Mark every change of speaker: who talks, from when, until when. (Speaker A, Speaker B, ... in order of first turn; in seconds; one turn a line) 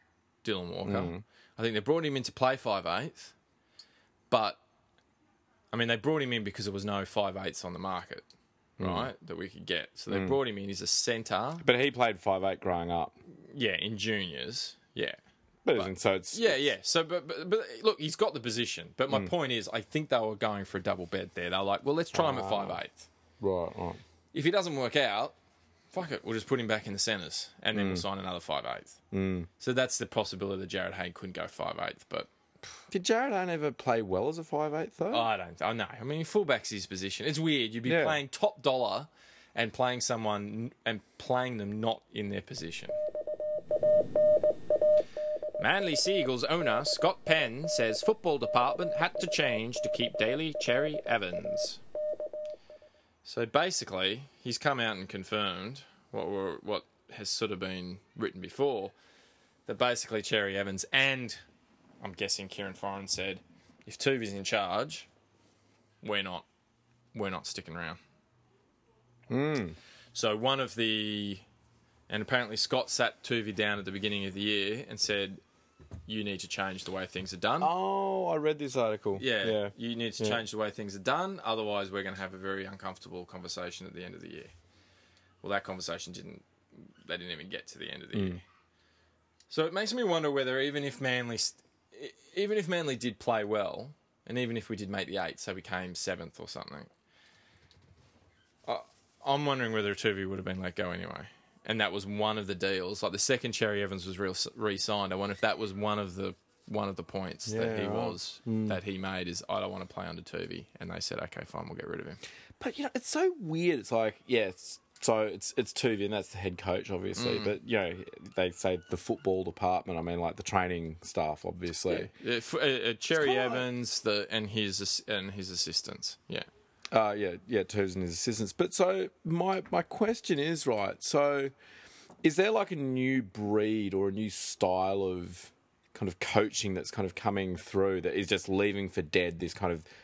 Speaker A: 0.4-3.3
Speaker B: 0.8-1.2
Speaker A: 4.3-4.6
Speaker A: 5.7-8.3
Speaker B: 8.8-9.1
Speaker A: 8.8-11.7
Speaker B: 10.1-10.4
Speaker B: 11.6-13.2
Speaker A: 13.5-15.2
Speaker B: 15.7-16.6
Speaker A: 15.7-23.1
Speaker B: 22.1-22.8
Speaker B: 23.4-24.0
Speaker A: 24.3-25.4
Speaker A: 25.9-29.0
Speaker B: 27.7-28.1
Speaker B: 29.1-29.5
Speaker A: 29.6-32.3
Speaker B: 32.9-35.3
Speaker A: 35.1-43.0
Speaker B: 37.9-38.2
Speaker A: 45.6-51.8
Speaker A: 53.2-58.9
Speaker A: 59.7-61.4
Speaker A: 62.0-65.1
Speaker A: 66.0-66.5
Speaker A: 67.1-68.0
Speaker B: 69.3-69.8
Speaker A: 70.1-71.5
Speaker A: 72.1-75.4
Speaker A: 76.1-77.7
Speaker B: 77.6-80.4
Speaker A: 79.2-84.5
Speaker A: 85.4-86.4
Speaker A: 87.0-88.4
Speaker B: 88.1-88.4
Speaker A: 89.5-96.9
Speaker A: 98.7-112.2
Speaker B: 107.5-108.8
Speaker B: 112.6-122.1
Speaker A: 117.2-117.5
Speaker A: 121.9-126.5
Speaker B: 123.2-123.7
Speaker B: 126.9-131.5
Speaker B: 132.2-139.8